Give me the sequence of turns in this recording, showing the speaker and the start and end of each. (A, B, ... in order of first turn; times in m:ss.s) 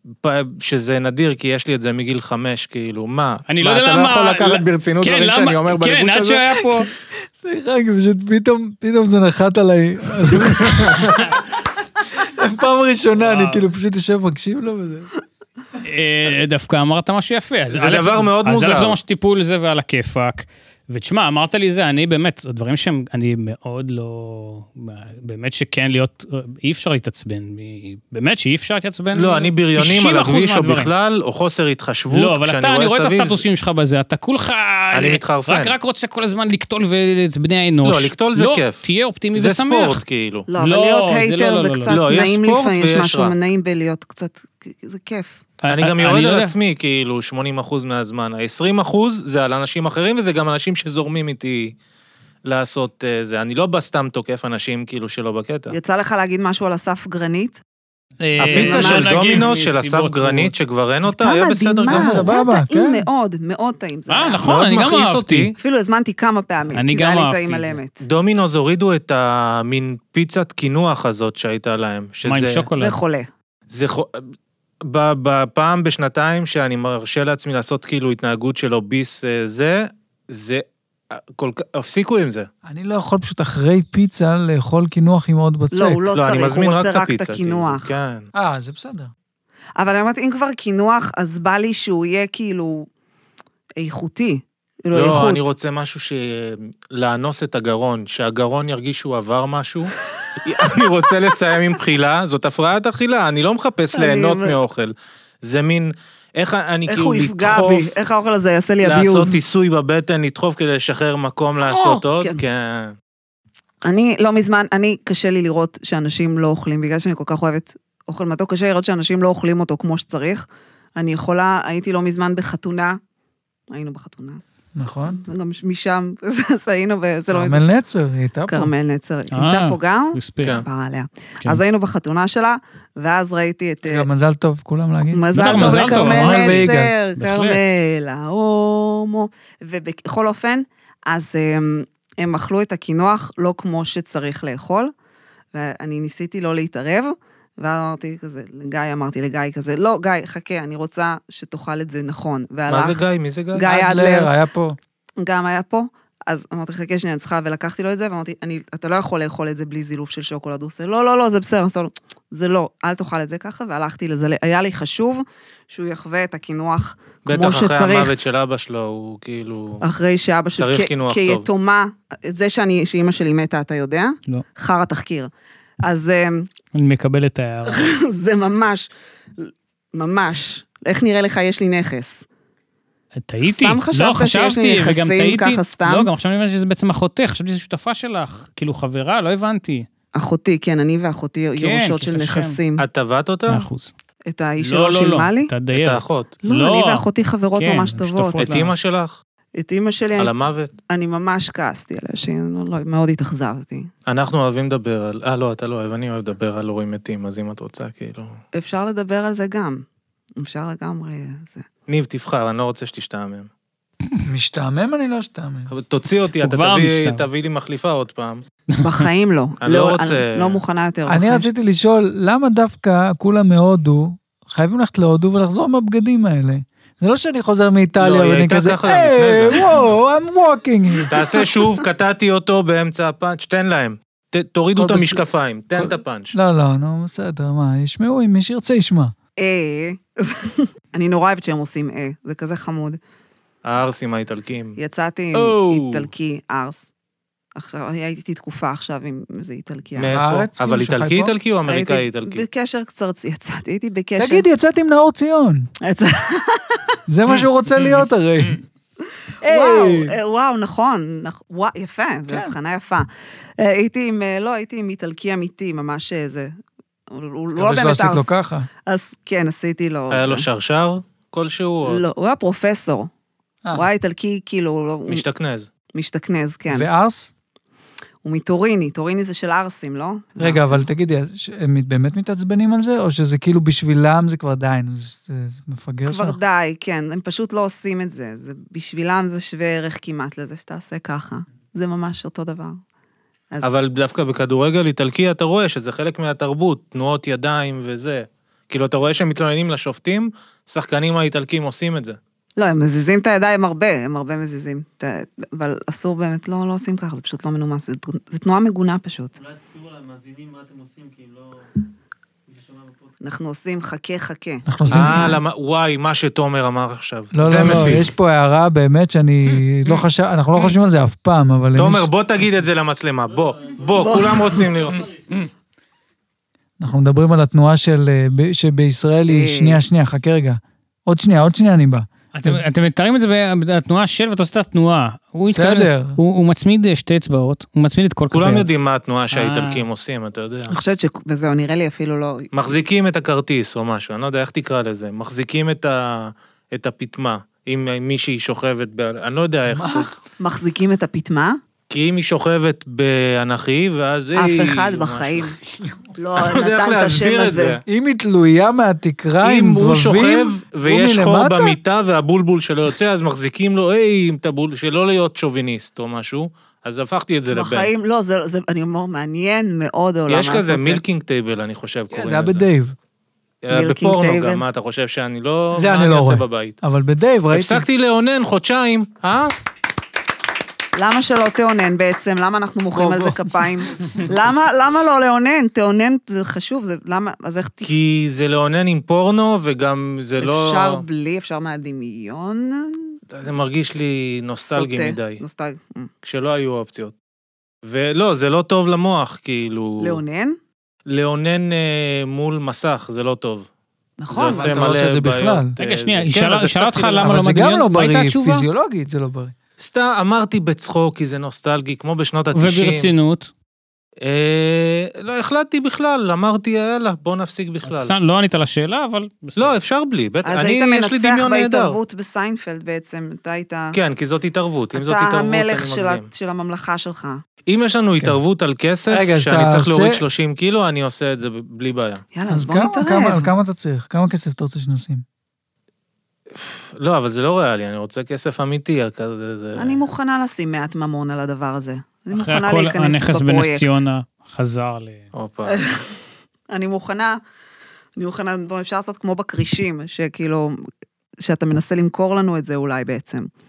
0:00.2-0:06.6 A
0:03.5-0:06.9 B
0:07.4-0:11.3 C
0:10.6-0:11.3 A
0:12.2-0:15.1 C
0:13.2-0:13.6 B
0:15.8-0:30.9 B
0:17.7-0:19.0 A
0:29.1-0:33.4 A
0:32.1-0:40.0 B
0:34.9-0:35.7 A
0:37.8-0:40.5 A
0:40.5-0:45.4 D
0:40.6-0:42.0 B
0:41.9-0:43.3 A
0:45.6-0:46.5 B
0:45.7-0:51.7 A
0:52.4-0:55.7 A
0:55.7-0:57.6 D
0:58.2-1:00.5 B
0:58.4-1:02.2 A
0:58.4-0:59.4 D
1:01.1-1:04.4 D
1:01.9-1:03.0 C
1:04.1-1:05.5 B
1:04.4-1:05.5 A
1:05.6-1:08.0 D
1:06.7-1:07.8 B
1:08.0-1:12.6 A
1:12.2-1:13.0 B
1:12.8-1:13.3 D
1:13.7-1:14.3 A
1:14.8-1:22.5 A
1:22.6-1:26.0 C
1:25.7-1:27.9 D
1:26.1-1:28.3 A
1:28.3-1:29.1 C
1:29.8-1:32.9 D
1:33.8-1:35.4 D
1:34.9-1:39.9 A
1:40.2-1:41.1 D
1:40.4-1:47.9 A
1:43.9-1:44.6 D
1:46.9-1:49.4 D
1:48.8-1:52.9 A
1:51.6-1:52.4 D
1:53.8-2:03.0 D
2:03.7-2:04.4 D
2:04.7-2:05.2 C
2:05.1-2:07.6 D
2:07.3-2:08.7 C
2:08.5-2:14.1 D
2:09.3-2:10.6 B
2:13.9-2:16.9 C
2:15.1-2:24.9 D
2:15.3-2:17.6 B
2:25.5-2:33.0 D
2:32.7-2:33.7 A
2:33.5-2:34.3 D
2:33.6-2:34.8 C
2:35.2-2:48.1 D
2:47.2-2:49.8 A
2:49.8-2:55.3 D
2:50.6-2:51.5 A
2:55.8-2:56.5 D
2:56.7-2:57.8 B
2:57.7-3:02.2 D
3:03.1-3:09.9 B
3:03.4-3:06.1 D
3:10.1-3:12.8 D
3:11.6-3:12.6 B
3:12.8-3:13.6 A
3:13.5-3:13.9 B
3:14.3-3:15.5 D
3:14.6-3:18.7 B
3:15.7-3:16.3 A
3:16.4-3:18.4 D
3:18.4-3:19.2 A
3:19.6-3:20.3 D
3:20.2-3:20.7 A
3:20.9-3:23.9 D
3:24.1-3:28.4 A
3:28.5-3:29.8 D
3:30.4-3:31.6 D
3:31.9-3:33.5 A
3:34.2-3:35.7 C
3:35.7-3:38.4 A
3:36.4-3:37.3 B
3:38.8-3:41.5 D
3:39.6-3:40.6 A
3:41.1-3:51.2 C
3:48.0-3:49.7 A
3:51.1-3:56.3 A
3:54.8-3:59.1 C
3:59.4-4:03.0 D
4:03.6-4:04.8 A
4:04.8-4:06.9 D
4:05.3-4:06.1 A
4:07.5-4:10.1 D
4:10.0-4:12.4 A
4:10.1-4:11.3 C
4:11.6-4:14.5 D
4:14.2-4:15.7 C
4:15.8-4:17.0 D
4:17.1-4:18.6 C
4:19.4-4:20.1 C
4:19.4-4:26.5 D
4:22.3-4:22.5 C
4:27.1-4:28.3 D
4:27.6-4:28.7 C
4:28.8-4:30.4 D
4:30.1-4:32.0 A
4:31.8-4:33.1 D
4:33.7-4:35.2 D
4:35.1-4:35.7 A
4:35.9-4:36.9 D
4:36.7-4:37.3 C
4:38.2-4:40.8 D
4:40.4-4:46.4 C
4:46.0-4:52.8 D
4:53.6-5:02.2 A
5:02.6-5:09.4 D
5:09.4-5:11.6 E
5:12.5-5:13.1 E
5:13.2-5:15.3 D
5:14.6-5:15.3 C
5:14.9-5:18.1 A
5:17.3-5:22.1 C
5:21.8-5:25.1 A
5:23.6-5:24.1 E
5:24.0-5:24.3 D
5:25.0-5:25.4 E
5:26.8-5:32.6 C
5:29.3-5:29.8 D
5:32.3-5:38.7 B
5:35.5-5:36.2 C
5:38.3-5:40.7 A
5:39.3-5:39.8 B
5:40.7-5:42.7 D
5:42.5-5:50.1 A
5:49.7-5:50.1 C
5:50.4-5:51.6 D
5:51.9-5:55.5 A
5:54.3-5:55.5 D
5:56.1-5:57.8 D
5:56.4-5:57.8 A
5:57.8-6:01.8 C
5:59.4-6:07.9 A
6:07.5-6:11.0 D
6:10.3-6:12.7 A
6:12.1-6:12.9 C
6:13.6-6:16.8 A
6:13.7-6:14.6 D
6:15.7-6:17.8 C
6:17.5-6:19.5 A
6:20.9-6:27.9 D
6:22.9-6:23.6 C
6:27.8-6:31.0 A
6:30.4-6:33.2 D
6:33.3-6:35.4 A
6:34.7-6:36.1 D
6:36.2-6:37.1 A
6:37.8-6:40.2 A
6:40.0-6:40.6 D
6:41.1-6:43.7 A
6:44.2-6:44.8 D
6:44.3-6:47.4 A
6:44.5-6:45.7 C
6:45.8-6:48.6 B
6:47.2-6:49.5 C
6:49.8-6:53.1 A
6:52.5-6:53.5 B
6:54.2-6:58.1 A
6:57.8-6:59.7 B
6:59.6-7:02.0 A
7:00.4-7:04.0 D
7:03.9-7:06.2 A
7:04.9-7:07.4 D
7:07.7-7:12.2 A
7:09.1-7:10.2 C
7:12.3-7:13.5 D
7:12.5-7:15.2 C
7:16.5-7:20.0 A
7:19.8-7:24.0 D
7:22.3-7:25.3 B
7:25.3-7:25.8 A
7:25.7-7:26.0 D
7:26.7-7:27.4 D
7:28.2-7:30.8 D
7:31.4-7:33.5 D